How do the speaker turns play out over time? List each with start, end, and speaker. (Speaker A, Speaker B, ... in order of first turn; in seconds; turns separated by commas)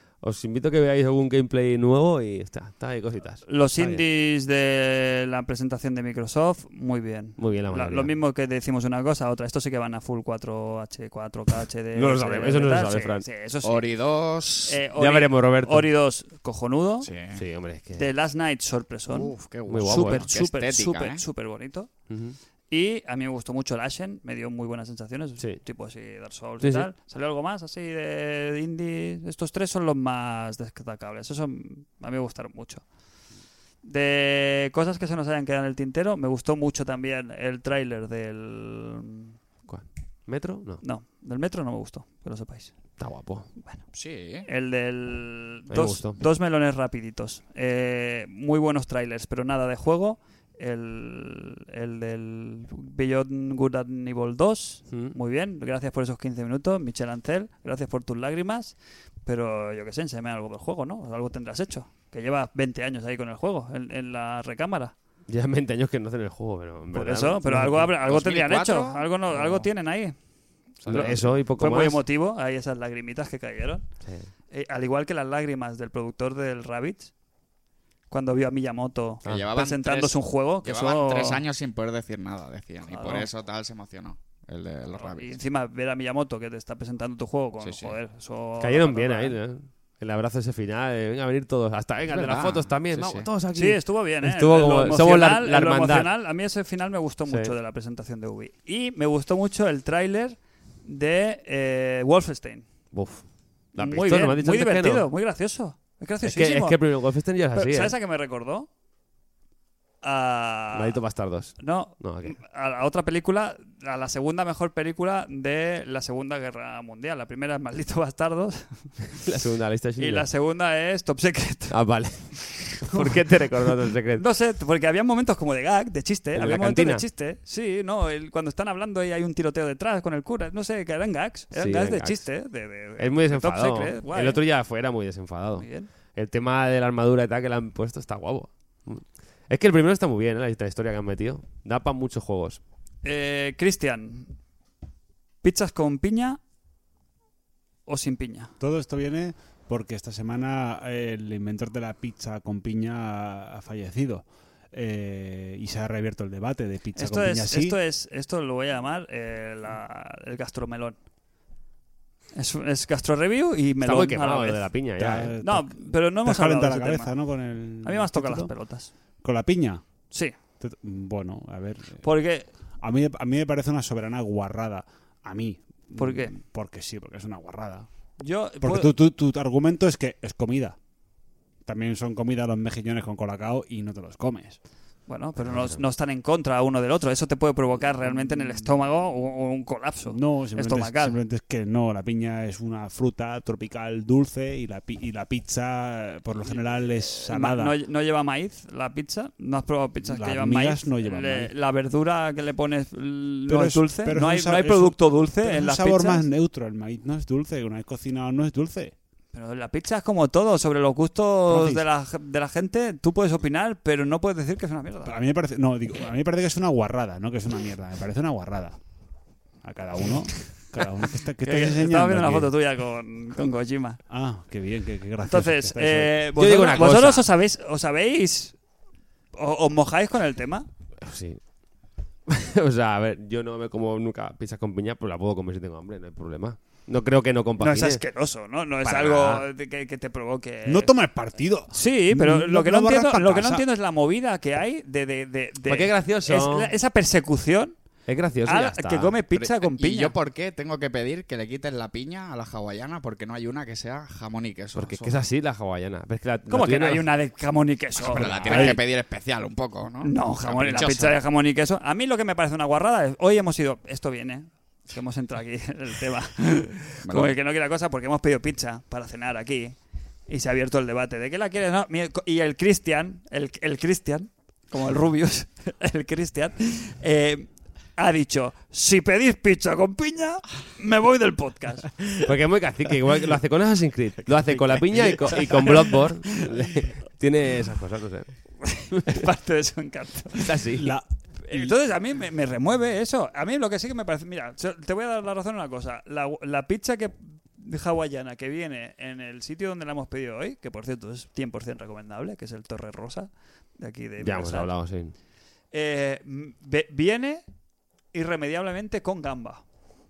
Speaker A: 0.2-4.0, Speaker B: 3.5-13.9, Speaker A: 7.4-8.1, Speaker A: 11.9-13.3, Speaker C: 13.6-14.8, Speaker B: 14.7-17.1, Speaker A: 15.0-15.9, Speaker C: 17.0-17.4, Speaker A: 17.3-18.1, Speaker B: 18.0-21.9, Speaker C: 19.1-21.2, Speaker A: 19.7-20.3, Speaker A: 22.1-22.4, Speaker B: 22.7-32.8, Speaker A: 26.6-26.9, Speaker B: 33.8-39.4, Speaker A: 39.7-40.8, Speaker B: 40.8-42.7, Speaker A: 43.0-43.5, Speaker C: 43.9-44.5, Speaker B: 44.5-58.8, Speaker A: 45.7-46.2, Speaker B: 59.3-64.9, Speaker A: 65.3-67.9, Speaker B: 66.9-70.2, Speaker C: 68.0-69.7, Speaker C: 70.8-71.2, Speaker A: 70.9-72.0, Speaker B: 70.9-73.8, Speaker B: 74.5-77.1, Speaker B: 78.1-81.4, Speaker C: 79.2-85.4, Speaker B: 82.9-83.3, Speaker B: 85.0-89.4, Speaker C: 87.6-87.9, Speaker A: 88.6-96.1, Speaker C: 92.1-93.3, Speaker B: 93.5-102.7, Speaker A: 97.3-97.5, Speaker A: 102.9-105.1, Speaker B: 103.8-106.8, Speaker A: 106.2-107.9, Speaker B: 107.5-108.7, Speaker B: 110.0-111.0, Speaker A: 110.7-112.4, Speaker B: 111.6-119.2, Speaker A: 119.2-120.3, Speaker B: 120.0-121.8, Speaker A: 121.7-124.2, Speaker B: 124.2-134.4, Speaker A: 126.3-127.1, Speaker A: 131.5-132.2, Speaker A: 133.0-142.6, Speaker B: 135.6-135.9, Speaker B: 143.0-144.3, Speaker B: 145.4-146.4, Speaker B: 147.9-148.5, Speaker D: 148.6-157.8, Speaker B: 157.0-161.0, Speaker B: 162.3-164.6, Speaker A: 163.8-165.3, Speaker D: 165.0-168.5, Speaker B: 165.4-167.1, Speaker B: 167.8-168.9, Speaker D: 169.2-169.8, Speaker D: 170.6-172.0, Speaker B: 172.0-172.5, Speaker D: 172.8-177.9, Speaker B: 175.9-176.3, Speaker B: 178.2-178.9, Speaker D: 178.6-180.8, Speaker D: 181.7-184.6, Speaker B: 185.1-191.2, Speaker D: 190.1-197.7, Speaker B: 197.3-206.3, Speaker D: 200.0-201.5, Speaker D: 203.5-208.9, Speaker B: 209.3-215.2, Speaker D: 211.5-211.8, Speaker D: 215.1-218.8, Speaker D: 219.6-222.5, Speaker B: 221.4-224.0, Speaker D: 224.1-226.2, Speaker B: 225.3-228.6, Speaker A: 226.4-227.3, Speaker B: 229.4-230.7, Speaker A: 231.0-231.4, Speaker A: 232.3-238.0, Speaker B: 237.6-240.9, Speaker A: 238.8-239.5, Speaker D: 240.7-243.7, Speaker B: 241.7-247.8, Speaker A: 245.7-246.7, Speaker A: 248.1-249.2, Speaker B: 248.5-250.2, Speaker C: 249.4-255.2, Speaker A: 254.8-257.1, Speaker B: 256.5-258.8, Speaker C: 258.0-261.2, Speaker D: 258.1-258.8, Speaker B: 260.0-269.8, Speaker C: 267.0-267.3, Speaker B: 270.3-282.2, Speaker A: 282.2-288.3, Speaker B: 285.0-286.0, Speaker B: 288.6-290.6, Speaker A: 288.9-289.2, Speaker A: 290.4-290.9, Speaker D: 290.7-291.7, Speaker B: 291.4-304.7, Speaker A: 304.2-305.1, Speaker B: 305.7-307.4, Speaker B: 308.1-309.6